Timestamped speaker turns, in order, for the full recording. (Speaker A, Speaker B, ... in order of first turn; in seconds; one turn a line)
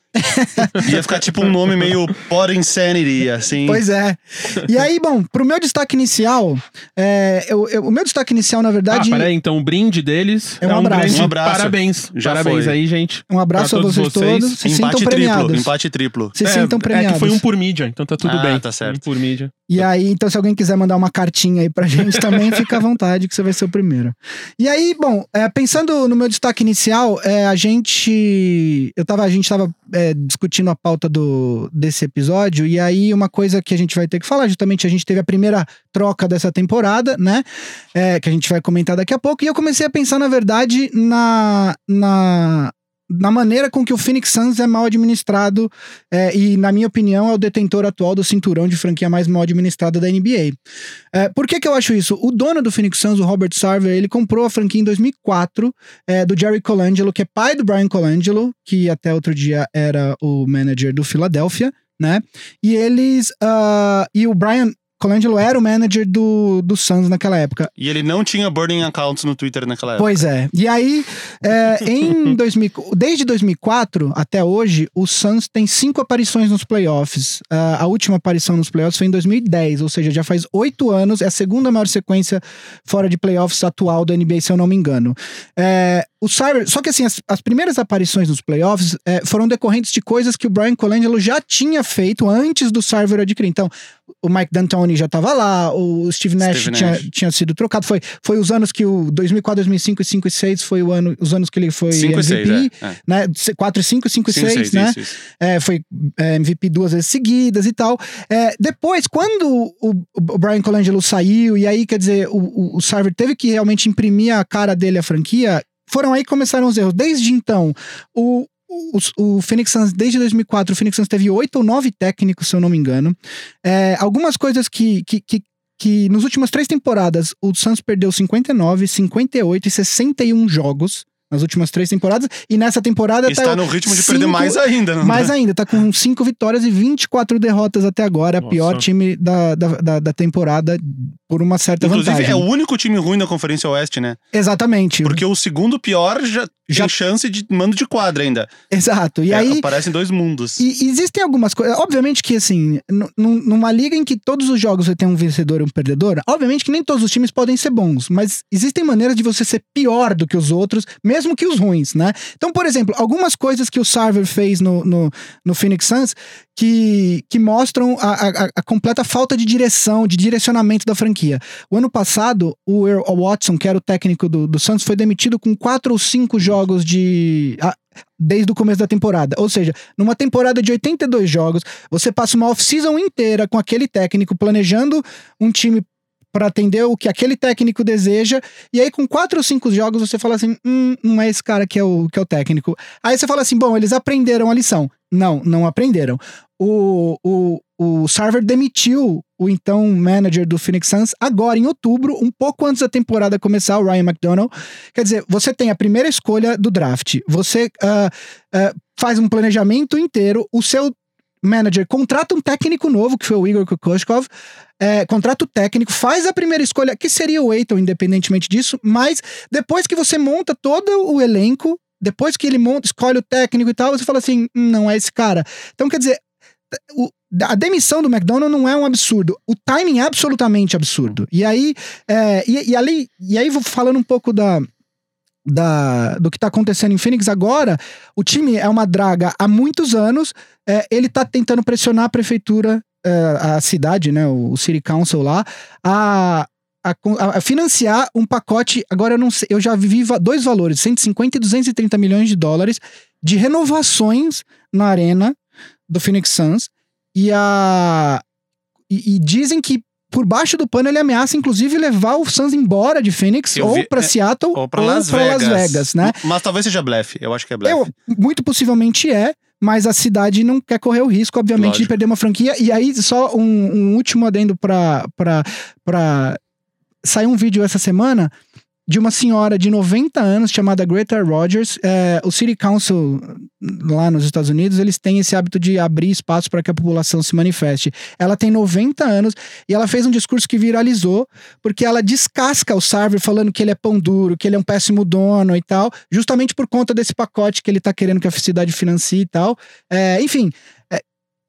Speaker A: 0.1-0.9
Speaker B: 0.7-3.8
Speaker A: 3.6-9.3
Speaker C: 8.9-14.6
Speaker A: 10.6-11.3
Speaker B: 11.1-12.8
Speaker A: 13.3-15.7
Speaker B: 14.6-16.3
Speaker A: 16.3-17.4
Speaker C: 16.4-19.6
Speaker B: 18.2-19.0
Speaker A: 19.7-50.6
Speaker C: 22.1-22.5
Speaker A: 51.1-67.7
Speaker B: 67.8-70.2
Speaker A: 70.0-93.7
Speaker A: 94.2-142.4
Speaker B: 96.4-97.0
Speaker B: 101.9-102.9
Speaker B: 104.3-105.1
Speaker B: 133.3-135.3
Speaker C: 138.4-138.8
Speaker B: 141.8-144.2
Speaker A: 144.3-145.2
Speaker B: 145.0-148.5
Speaker A: 148.7-149.7
Speaker B: 149.3-150.6
Speaker A: 150.6-214.3
Speaker A: 214.8-226.2
Speaker A: 226.7-234.7
Speaker A: 235.4-255.3
Speaker A: 255.9-258.2
Speaker A: 258.9-266.2
Speaker B: 263.6-267.8
Speaker A: 267.6-276.4
Speaker B: 271.6-271.9
Speaker A: 277.0-278.3
Speaker A: 278.9-301.0